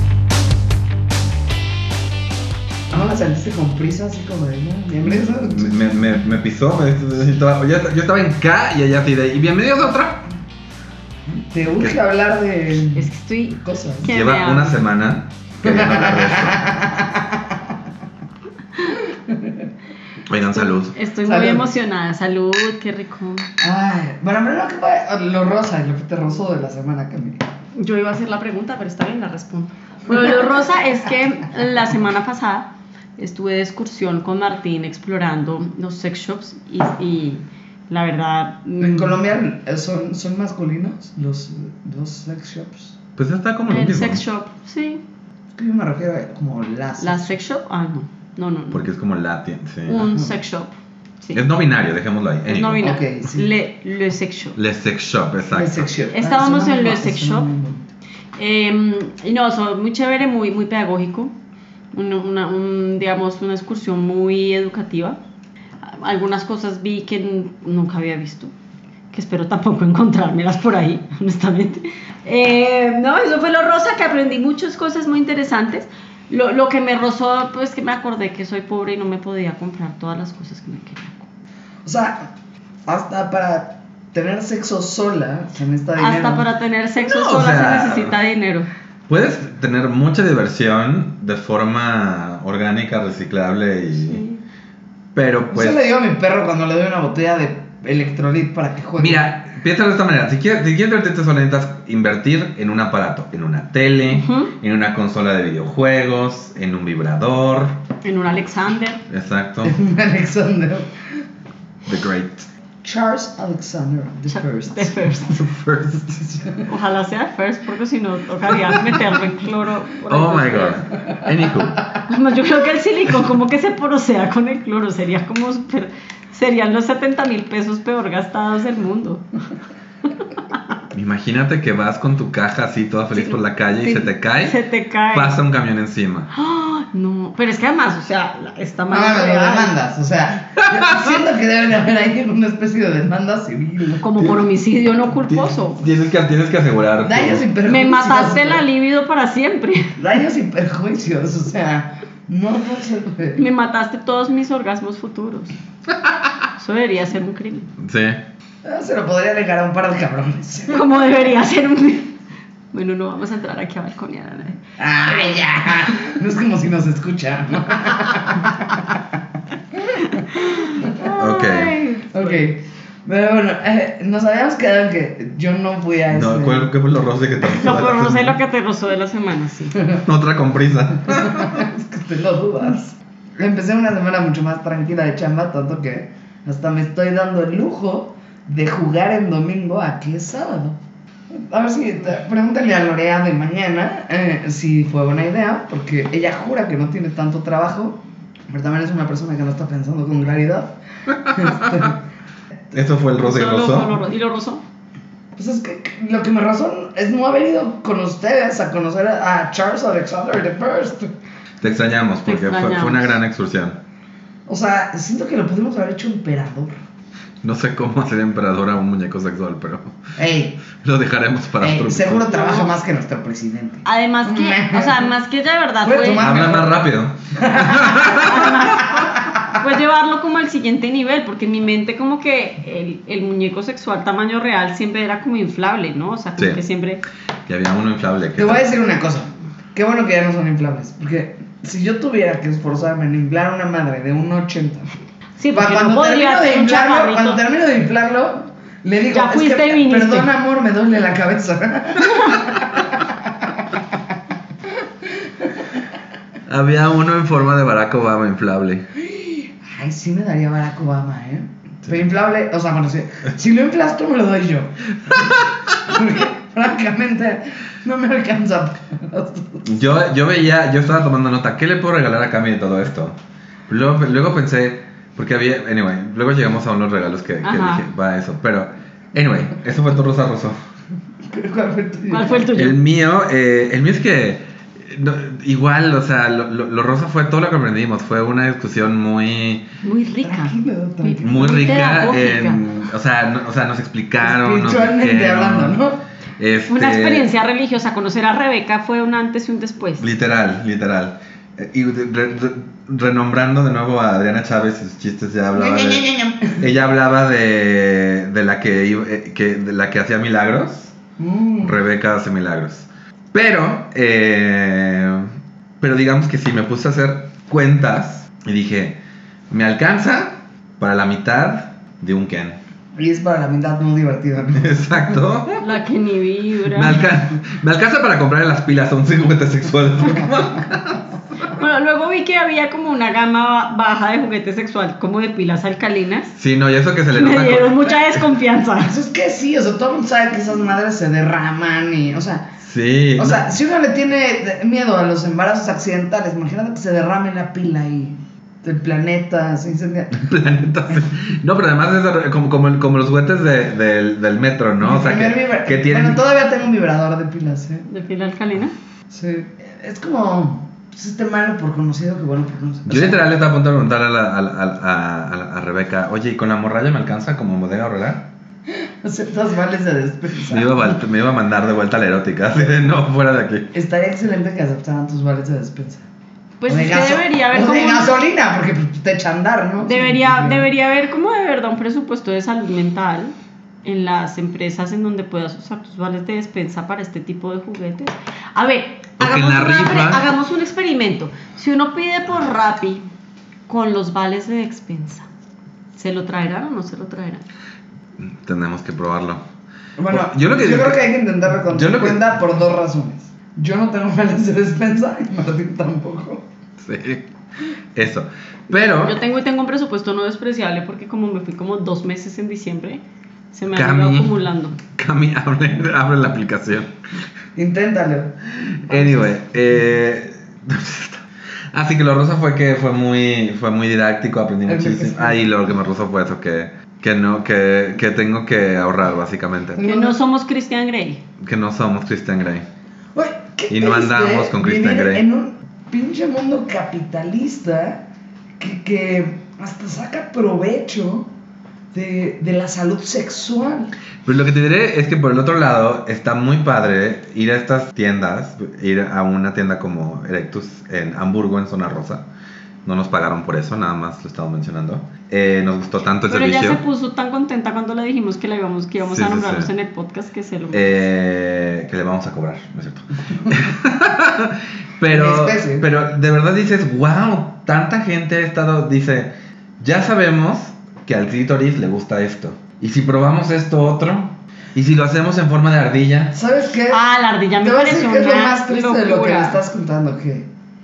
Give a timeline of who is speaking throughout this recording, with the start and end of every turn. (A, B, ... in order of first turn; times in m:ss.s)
0:02.9-0:06.0 A
0:05.0-0:10.2 B
0:11.3-0:14.2 A
0:13.0-0:14.8 C
0:14.0-0:16.6 B
0:15.6-0:17.6 A
0:19.3-0:19.7 A
0:20.3-0:20.9 B
0:20.5-0:23.5 C
0:21.2-0:21.6 A
0:23.6-0:27.4 A
0:27.8-0:39.2 C
0:38.8-0:43.0 A
0:43.2-0:44.2 B
0:43.7-0:45.0 C
0:45.5-0:47.3 A
0:47.0-0:48.8 C
0:48.7-0:50.1 B
0:49.9-0:51.4 C
0:51.3-0:52.8 B
0:52.5-0:54.6 C
0:52.8-0:53.5 A
0:54.6-0:55.9 B
0:55.5-0:57.9 A
0:56.1-0:57.5 C
0:58.4-1:01.3 C
1:01.9-1:05.2 C
1:05.8-1:08.5 C
1:09.1-1:21.3 C
1:21.8-1:22.3 A
1:22.9-1:26.4 A
1:26.0-1:28.7 C
1:27.0-1:28.2 B
1:29.1-1:34.2 B
1:34.0-1:34.4 C
1:35.1-1:35.8 B
1:35.5-1:39.2 A
1:39.0-1:47.8 B
1:44.1-1:44.5 C
1:48.0-1:49.0 C
1:49.1-1:49.8 B
1:49.6-1:50.9 A
1:51.9-1:52.5 B
1:52.8-1:55.0 A
1:54.3-1:55.4 C
1:55.3-1:56.1 B
1:56.1-1:56.7 A
1:56.7-2:00.8 C
2:00.1-2:01.8 B
2:02.1-2:09.2 C
2:10.9-2:14.6 B
2:13.1-2:15.4 C
2:15.1-2:16.3 B
2:16.3-2:19.7 C
2:18.9-2:24.0 A
2:20.6-2:21.0 B
2:24.0-2:25.8 C
2:25.3-2:27.4 B
2:27.0-2:28.6 A
2:27.6-2:29.9 C
2:30.0-2:33.4 A
2:33.3-2:35.5 C
2:36.6-2:37.7 C
2:37.8-2:38.2 B
2:38.6-2:40.9 A
2:40.7-2:42.1 C
2:42.7-2:46.0 C
2:44.8-2:49.0 A
2:49.8-2:51.0 A
2:50.3-2:52.4 C
2:51.2-2:51.8 B
2:52.1-2:56.7 A
2:56.1-2:58.4 B
2:57.4-2:59.8 C
3:00.0-3:01.6 B
3:01.1-3:10.8 A
3:11.3-3:20.7 A
3:21.2-3:22.0 A
3:21.3-3:21.8 B
3:22.7-3:24.0 B
3:23.2-3:24.6 C
3:25.4-3:31.1 A
3:31.6-3:33.8 B
3:32.2-3:33.1 C
3:34.5-3:36.8 A
3:37.4-3:40.0 B
3:40.2-3:40.6 A
3:40.7-3:42.3 B
3:41.6-3:45.1 A
3:42.3-3:42.7 C
3:43.8-3:46.3 C
3:45.8-3:49.6 A
3:46.1-3:48.6 B
3:47.9-3:57.0 C
3:57.5-3:58.6 B
3:58.4-4:04.9 A
4:05.4-4:07.4 C
4:05.5-4:13.1 A
4:09.1-4:10.3 C
4:16.5-4:18.8 B
4:18.9-4:29.8 A
4:29.6-4:40.6 B
4:37.4-4:37.8 C
4:41.3-4:42.4 A
4:42.1-4:42.8 C
4:42.5-4:49.6 B
4:49.8-4:52.6 C
4:50.2-4:51.6 A
4:51.2-4:55.8 B
4:54.2-4:56.0 A
4:56.4-4:57.3 B
4:56.7-5:00.0 C
5:00.0-5:06.0 B
5:05.5-5:06.7 A
5:06.6-5:10.9 B
5:11.2-5:11.8 A
5:11.6-5:22.6 B
5:23.0-5:25.1 A
5:24.5-5:25.6 B
5:25.6-5:27.0 C
5:26.7-5:31.0 B
5:31.5-5:36.3 C
5:36.4-5:38.2 B
5:37.1-5:38.9 C
5:38.8-5:42.5 A
5:42.6-5:43.5 B
5:43.2-5:50.4 A
5:50.1-5:56.2 B
5:54.8-5:57.8 A
5:57.8-5:58.7 C
5:59.1-6:03.2 A
6:02.9-6:08.3 B
6:08.8-6:11.0 A
6:10.5-6:13.7 B
6:13.7-6:16.0 A
6:16.6-6:18.1 C
6:16.7-6:20.7 A
6:19.8-6:33.0 C
6:29.2-6:30.3 B
6:33.7-6:35.3 C
6:36.0-6:37.4 C
6:38.2-6:39.4 B
6:40.0-6:46.4 A
6:40.1-6:41.0 B
6:41.6-6:42.2 B
6:46.8-6:47.2 B
6:47.9-6:49.2 B
6:48.7-6:53.0 C
6:53.5-6:54.8 C
6:53.7-6:56.9 B
6:57.6-6:58.3 A
6:58.9-6:59.4 A
6:58.9-7:09.8 B
7:04.6-7:05.5 A
7:09.8-7:10.2 A
7:09.8-7:11.2 C
7:11.4-7:12.6 B
7:13.1-7:18.0 A
7:13.7-7:15.2 B
7:18.6-7:21.3 A
7:21.9-7:23.9 A
7:24.2-7:32.3 B
7:32.8-7:36.8 B
7:36.3-7:41.0 C
7:39.0-7:39.7 B
7:40.7-7:56.4 B
7:45.1-7:45.8 A
7:56.3-7:57.0 A
7:56.9-7:59.6 C
7:57.6-8:00.5 A